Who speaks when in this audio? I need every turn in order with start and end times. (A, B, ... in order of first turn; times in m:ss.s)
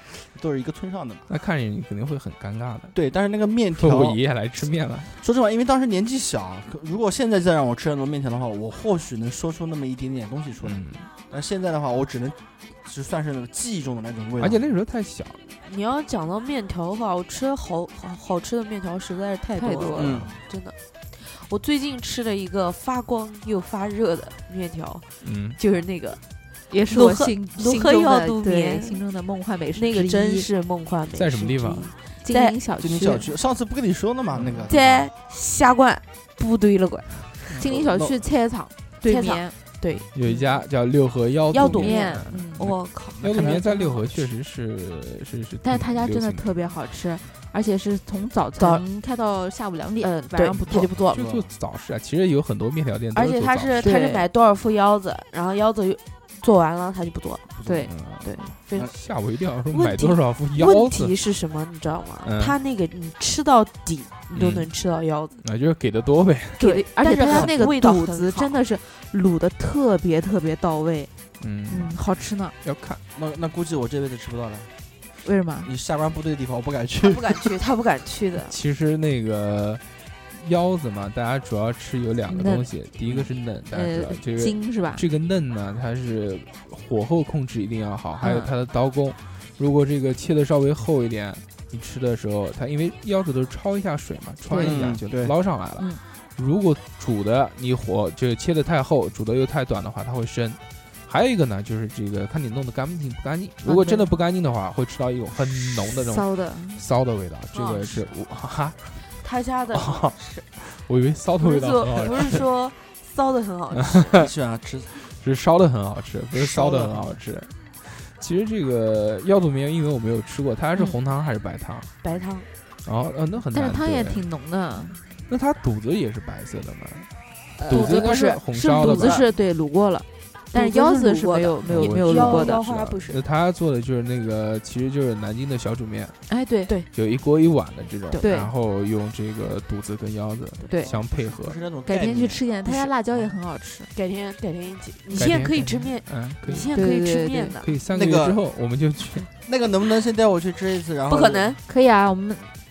0:00.3-0:01.3 A
0:01.3-0:02.9 B
0:02.9-0:04.2 A
0:03.8-0:05.1 B
0:05.2-0:14.6 A
0:10.6-0:11.1 B
0:14.4-0:15.4 B
0:15.6-0:25.1 C
0:19.6-0:20.1 D
0:20.0-0:20.4 A
0:20.0-0:20.3 B
0:25.2-0:25.6 B
0:25.6-0:26.2 C
0:26.7-0:30.5 D
0:26.9-0:29.0 C
0:29.7-0:32.6 C
0:31.1-0:31.9 B
0:32.2-0:33.3 D
0:32.8-0:35.1 A
0:34.3-0:34.6 B
0:34.7-0:37.6 C
0:37.6-0:38.2 A
0:37.6-0:39.5 D
0:39.0-0:40.1 C
0:40.1-0:46.5 B
0:41.5-0:43.6 C
0:41.6-0:42.7 D
0:43.2-0:43.6 A
0:43.3-0:44.0 D
0:45.6-0:50.9 D
0:48.6-0:48.8 C
0:50.0-0:51.2 C
0:51.0-0:51.5 A
0:51.1-0:53.9 B
0:53.1-0:57.5 C
0:53.8-0:54.2 D
0:57.6-0:57.9 D
0:57.8-1:01.1 B
0:58.2-0:58.9 C
0:59.7-1:05.4 C
1:02.2-1:02.6 B
1:04.3-1:04.7 B
1:05.4-1:06.6 B
1:06.6-1:08.6 C
1:06.6-1:11.1 D
1:11.4-1:12.0 B
1:11.7-1:12.6 D
1:12.6-1:13.0 B
1:13.2-1:14.7 A
1:15.2-1:15.7 D
1:15.6-1:17.5 A
1:17.0-1:18.6 C
1:18.5-1:49.0 B
1:22.3-1:22.7 D
1:23.1-1:23.3 A
1:23.7-1:25.0 D
1:28.2-1:28.5 D
1:34.5-1:34.8 D
1:34.6-1:35.3 A
1:43.6-1:44.1 D
1:45.9-1:46.8 D
1:47.5-1:48.1 C
1:49.2-1:50.5 C
1:49.7-1:52.4 B
1:51.4-1:54.2 C
1:53.8-1:54.3 B
1:54.1-1:54.9 A
1:55.0-2:01.9 B
1:56.3-1:57.1 A
2:02.0-2:02.5 C
2:02.8-2:04.2 B
2:03.5-2:05.0 D
2:05.3-2:07.1 B
2:07.6-2:12.6 D
2:07.7-2:09.2 B
2:07.7-2:09.3 C
2:10.5-2:13.2 C
2:11.7-2:16.2 B
2:16.3-2:16.7 D
2:16.9-2:21.6 B
2:18.2-2:18.5 D
2:20.8-2:22.4 A
2:21.9-2:23.9 D
2:23.9-2:27.7 C
2:25.2-2:26.7 B
2:26.7-2:27.6 D
2:27.6-2:29.3 B
2:27.9-2:28.4 A
2:29.4-2:31.6 A
2:31.1-2:31.6 C
2:31.7-2:32.5 D